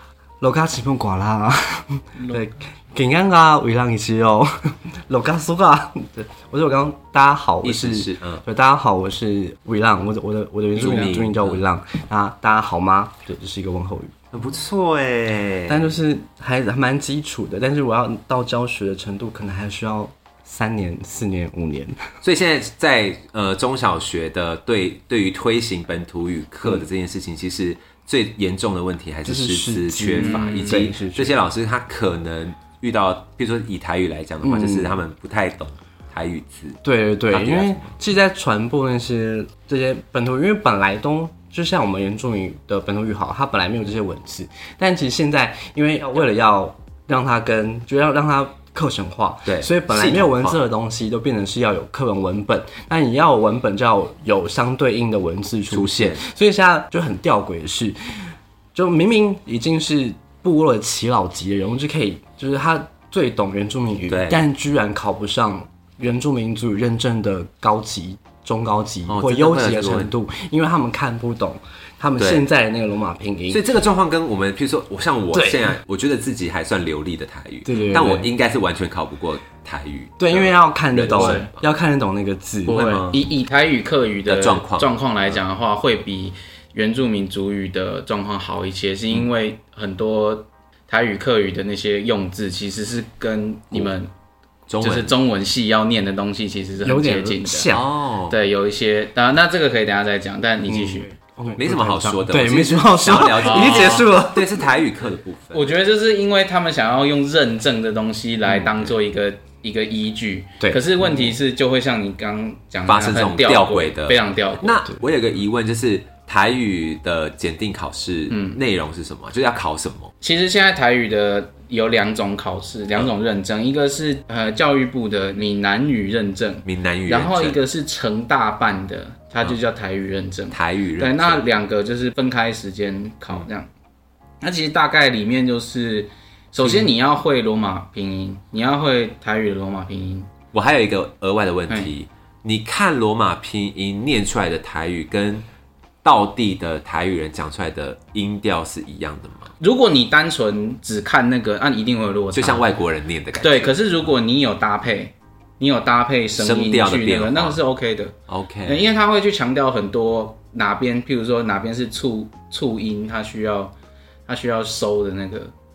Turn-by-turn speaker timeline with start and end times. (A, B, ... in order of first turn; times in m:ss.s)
0:00.4-0:14.1 A
0:07.6-0:08.4 B
0:10.7-0:11.6 B
0:10.8-0:11.1 C
0:14.3-0:15.9 B
0:15.7-0:22.1 A
0:22.2-0:36.8 B
0:29.2-0:31.4 A
0:30.2-0:30.8 C
0:34.4-0:35.0 A
0:36.8-1:13.6 A
0:37.3-0:37.9 B
0:49.4-0:50.6 B
0:55.7-0:56.2 B
1:04.1-1:04.4 B
1:09.1-1:10.1 B
1:12.2-1:12.4 B
1:13.5-1:21.7 B
1:15.3-1:15.7 A
1:17.7-1:18.3 A
1:20.2-1:23.1 A
1:21.1-1:21.5 C
1:22.7-1:23.2 B
1:22.7-1:34.1 C
1:24.3-1:24.9 B
1:34.7-1:35.1 B
1:34.8-1:37.7 C
1:36.8-1:37.9 A
1:37.7-1:38.4 B
1:38.3-1:41.1 C
1:40.6-1:44.6 A
1:41.6-1:45.6 B
1:43.3-1:44.1 C
1:45.5-1:54.8 C
1:50.6-1:51.3 A
1:52.9-2:00.1 B
1:58.3-1:58.6 C
2:00.2-2:13.7 C
2:06.6-2:07.6 B
2:10.5-2:11.4 B
2:14.4-2:20.3 C
2:16.6-2:16.9 B
2:20.5-2:25.4 B
2:26.0-2:29.5 B
2:29.6-2:32.6 C
2:32.3-2:33.8 B
2:33.4-2:38.1 C
2:36.4-2:37.6 B
2:38.3-2:38.9 B
2:38.6-2:43.7 C
2:44.3-2:45.5 C